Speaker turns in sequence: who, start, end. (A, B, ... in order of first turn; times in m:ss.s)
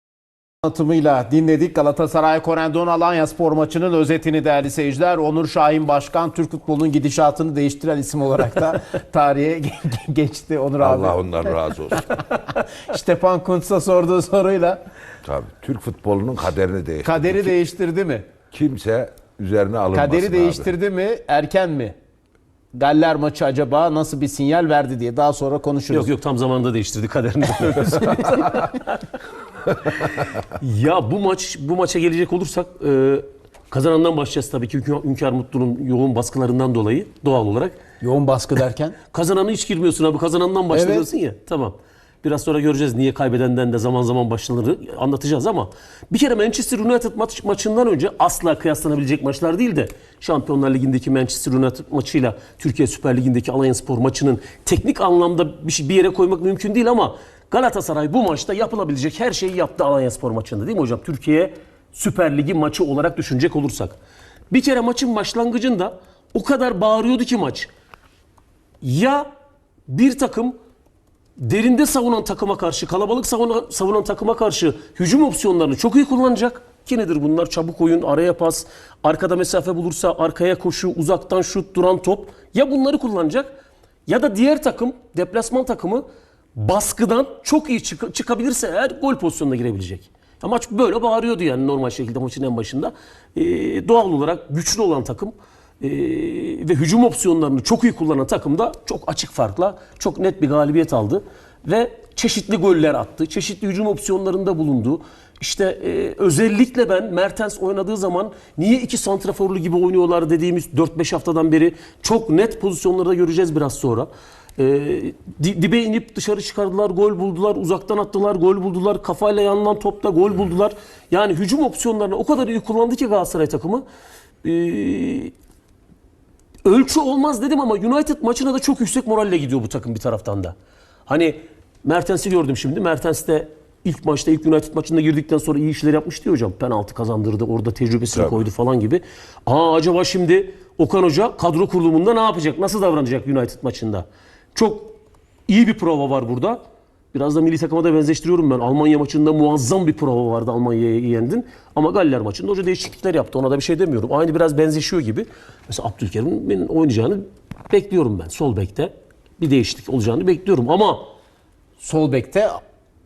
0:00.6-0:12.0 A
0:10.8-0:12.1 B
0:12.6-0:14.8 A
0:15.2-0:17.5 B
0:17.0-0:18.3 A
0:18.5-0:20.7 B
0:19.9-0:21.9 A
0:22.7-0:26.1 A
0:25.9-0:29.1 C
0:29.8-0:37.8 C
0:38.0-0:39.0 A
0:39.1-1:04.0 C
0:40.7-0:41.1 A
1:04.5-1:07.7 C
1:08.8-1:09.3 C
1:09.9-1:10.6 C
1:11.4-1:23.6 C
1:24.1-1:26.0 C
1:26.6-2:03.8 C
2:04.4-2:05.3 C
2:06.6-2:10.6 C
2:11.1-2:25.0 C
2:18.1-2:18.4 B
2:25.5-2:26.6 C
2:27.1-2:41.1 C
2:41.8-2:42.6 A